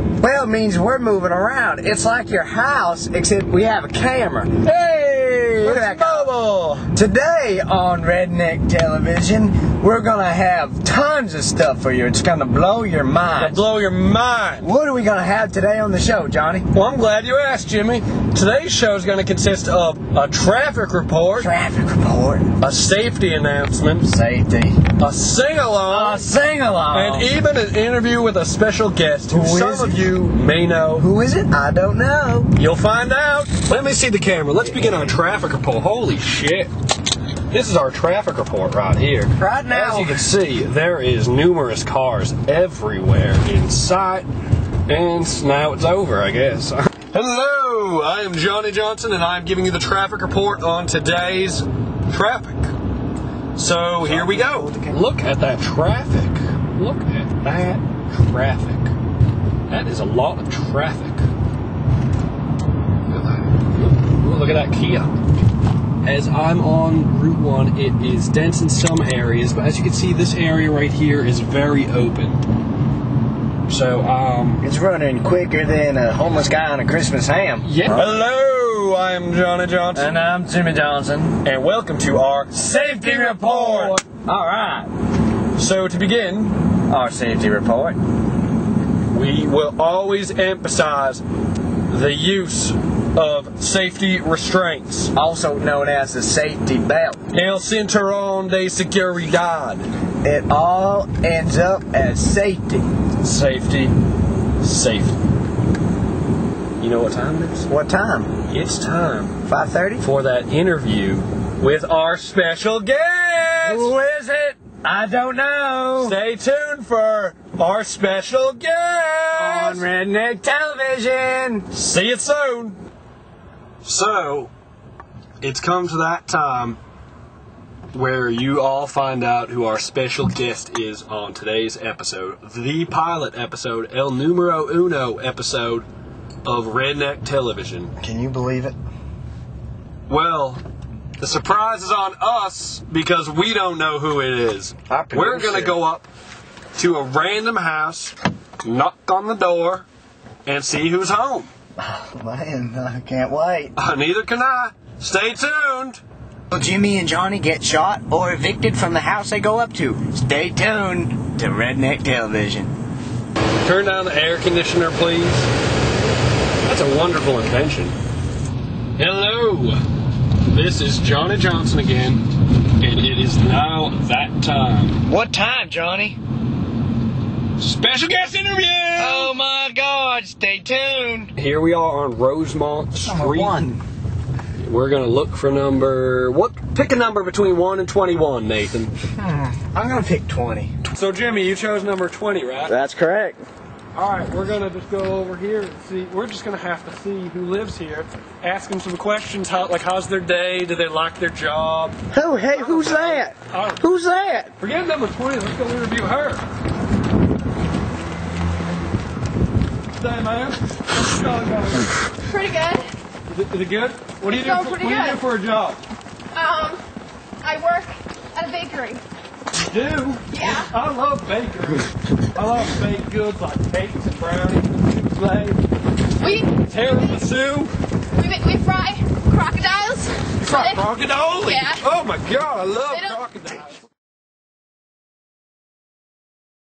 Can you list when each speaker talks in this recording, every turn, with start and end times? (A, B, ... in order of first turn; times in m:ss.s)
0:00.2-0:06.3 A
0:04.6-0:06.9 B
0:06.9-0:13.6 A
0:13.4-0:14.7 B
0:14.6-0:16.7 A
0:16.7-0:21.5 B
0:21.4-0:22.5 A
0:22.6-0:24.1 B
0:24.0-0:24.8 A
0:24.9-0:26.3 B
0:25.9-0:27.3 A
0:26.9-0:31.1 B
0:29.3-0:30.0 A
0:31.0-0:32.5 A
0:32.5-0:36.7 B
0:37.5-0:44.3 B
0:39.4-0:40.2 A
0:44.9-0:52.7 B
0:53.6-0:58.9 B
0:54.0-0:55.0 A
0:59.7-1:01.2 B
1:03.1-1:05.1 B
1:06.0-1:12.4 B
1:13.7-1:14.7 B
1:14.6-1:18.1 A
1:17.6-1:20.2 B
1:19.9-1:21.4 A
1:21.4-1:24.0 B
1:22.6-1:24.9 A
1:25.6-1:26.6 B
1:26.9-1:28.0 A
1:29.1-1:31.2 B
1:31.9-1:35.1 B
1:35.1-1:37.2 A
1:37.3-1:39.9 B
1:40.2-1:42.9 A
1:43.2-1:43.9 B
1:44.6-1:45.2 B
1:46.8-1:47.7 B
1:47.7-1:48.3 A
1:48.5-1:49.4 B
1:49.4-1:50.0 A
1:50.0-1:53.9 B
1:53.6-1:56.2 A
1:56.0-1:59.9 B
1:59.3-2:01.6 A
2:01.7-2:02.8 B
2:03.8-2:04.5 B
2:05.4-2:06.8 B
2:07.9-2:15.9 B
2:16.4-2:17.9 B
2:18.0-2:18.7 A
2:20.1-2:20.6 B
2:21.2-2:26.0 B
2:24.9-2:25.8 A
2:26.7-2:29.8 B
2:30.4-2:31.5 B
2:31.8-2:33.7 A
2:33.8-2:36.0 B
2:36.5-2:42.7 A
2:43.6-2:45.5 B
2:46.6-2:48.0 B
2:49.0-2:49.8 B
2:50.5-2:52.2 B
2:52.8-2:55.0 B
2:55.0-2:56.2 A
2:57.6-2:59.3 B
2:59.0-3:01.3 A
3:01.4-3:03.6 B
3:03.0-3:03.8 A
3:04.6-3:08.9 B
3:09.2-3:10.7 A
3:10.8-3:12.7 B
3:12.7-3:13.4 A
3:13.9-3:22.0 B
3:22.1-3:24.5 A
3:22.5-3:23.8 B
3:24.6-3:26.4 B
3:30.0-3:31.9 B
3:32.2-3:32.9 C
3:33.3-3:35.8 B
3:34.3-3:35.2 C
3:36.3-3:36.8 C
3:37.4-3:39.0 C
3:39.5-3:45.6 B
3:40.3-3:40.7 C
3:46.2-3:47.0 C
3:46.6-3:47.7 B
3:48.1-3:50.8 C
3:50.4-3:53.8 B
3:51.4-3:51.8 C
3:52.9-3:53.2 C